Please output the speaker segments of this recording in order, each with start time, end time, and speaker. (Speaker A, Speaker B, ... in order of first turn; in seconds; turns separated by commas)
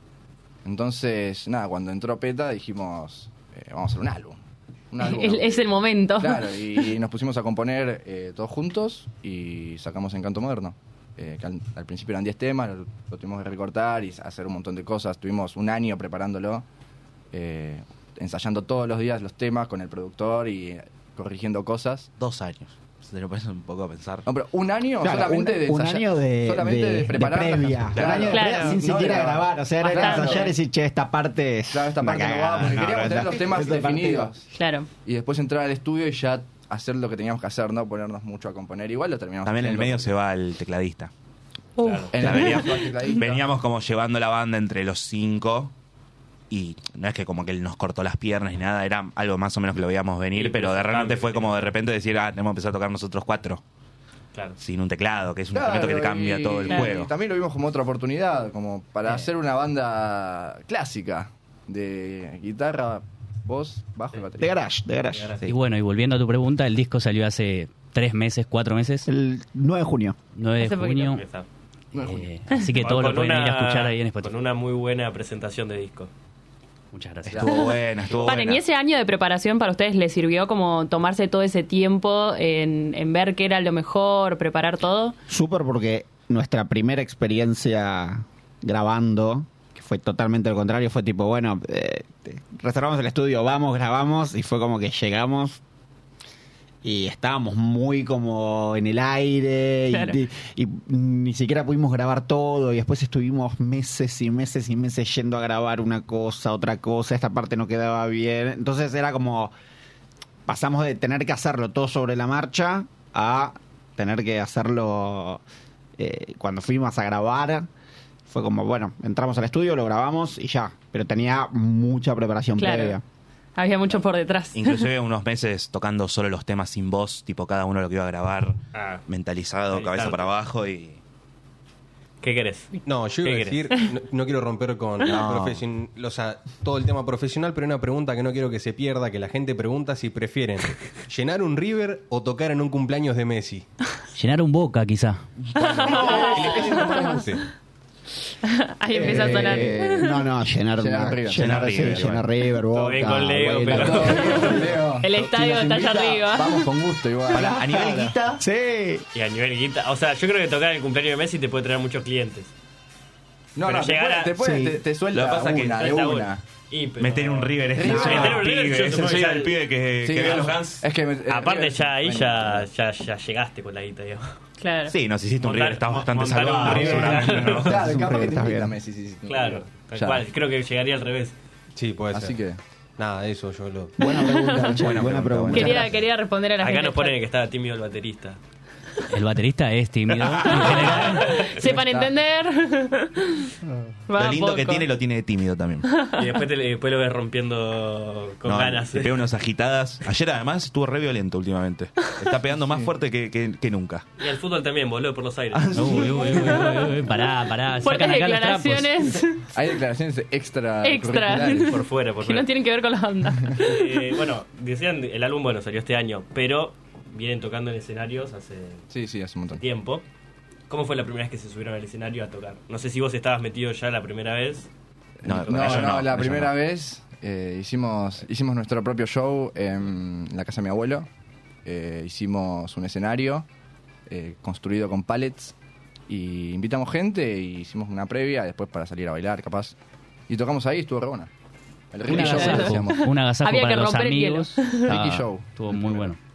Speaker A: 0.7-4.4, Speaker A: 4.9-16.7, Speaker B: 5.0-6.6, Speaker A: 17.3-22.1, Speaker C: 22.2-24.3, Speaker A: 24.3-30.5, Speaker D: 25.0-34.4, Speaker C: 28.0-28.2, Speaker B: 28.3-28.8, Speaker B: 29.8-30.5, Speaker A: 31.7-34.5, Speaker B: 34.5-34.9, Speaker A: 35.0-40.1, Speaker C: 39.4-41.1, Speaker B: 41.8-42.9, Speaker E: 41.8-42.2, Speaker A: 42.1-43.5, Speaker C: 42.2-45.7, Speaker C: 46.5-53.6, Speaker E: 50.3-51.7, Speaker C: 54.6-57.1, Speaker A: 55.5-64.6, Speaker D: 64.4-65.3, Speaker E: 65.1-65.5, Speaker F: 65.5-69.1, Speaker D: 69.1-70.2, Speaker F: 70.3-71.2, Speaker B: 70.6-71.1, Speaker E: 71.0-71.5, Speaker A: 71.9-72.3, Speaker F: 72.0-74.3, Speaker E: 72.8-76.1, Speaker F: 76.9-77.4, Speaker A: 77.3-77.6, Speaker C: 77.3-78.6, Speaker B: 78.2-85.2, Speaker D: 85.3-95.6, Speaker D: 96.8-109.5, Speaker B: 99.9-100.2, Speaker D: 110.5-115.4, Speaker D: 116.0-117.7, Speaker D: 118.3-123.0, Speaker B: 122.6-123.0, Speaker B: 123.6-124.8, Speaker C: 124.5-131.0, Speaker E: 128.7-129.0, Speaker E: 129.7-130.3, Speaker E: 132.2-133.6, Speaker G: 132.9-143.7, Speaker C: 135.1-135.6, Speaker F: 144.1-145.2, Speaker B: 145.6-147.1, Speaker A: 145.7-147.3, Speaker G: 145.9-147.4, Speaker B: 148.4-150.2, Speaker A: 148.9-149.7, Speaker D: 148.9-154.7, Speaker A: 150.8-151.9, Speaker C: 151.4-152.3, Speaker E: 152.7-154.7, Speaker A: 153.6-157.6, Speaker B: 155.0-156.6, Speaker D: 157.3-159.1, Speaker C: 157.3-158.4, Speaker E: 159.1-162.5, Speaker A: 163.6-166.4, Speaker E: 163.6-164.4, Speaker D: 164.3-164.8, Speaker C: 165.1-165.9, Speaker E: 165.7-169.6, Speaker C: 167.0-170.9, Speaker A: 167.8-168.4, Speaker D: 167.8-168.3, Speaker A: 170.0-172.7, Speaker E: 171.3-174.4, Speaker B: 174.6-174.9, Speaker C: 174.9-177.8, Speaker E: 175.4-177.8, Speaker A: 176.7-180.2, Speaker D: 177.7-178.8, Speaker E: 179.3-181.4, Speaker G: 181.8-182.4, Speaker A: 182.1-182.6, Speaker G: 183.0-184.0, Speaker D: 184.0-185.8, Speaker B: 184.1-184.8, Speaker C: 184.8-186.1, Speaker B: 185.5-187.2, Speaker E: 186.6-188.4, Speaker F: 189.1-191.2, Speaker E: 190.2-191.6, Speaker B: 190.5-193.5, Speaker A: 191.6-192.1, Speaker B: 194.1-194.9, Speaker C: 194.1-195.9, Speaker B: 195.9-196.2, Speaker E: 196.2-199.1, Speaker C: 198.4-204.1, Speaker E: 204.2-206.9, Speaker C: 205.5-206.6, Speaker F: 205.8-209.1, Speaker B: 207.8-209.4, Speaker A: 209.5-211.7, Speaker B: 210.8-213.9, Speaker E: 211.6-212.5, Speaker E: 213.6-218.9, Speaker A: 218.9-219.6, Speaker E: 219.5-220.1, Speaker E: 220.7-224.7, Speaker A: 225.2-231.1, Speaker C: 225.2-226.6, Speaker E: 225.6-225.9, Speaker A: 231.6-233.5, Speaker A: 234.1-235.5, Speaker A: 236.1-239.8, Speaker A: 240.3-241.3, Speaker A: 241.9-243.0, Speaker F: 242.1-246.2, Speaker B: 242.1-245.0, Speaker A: 244.9-246.1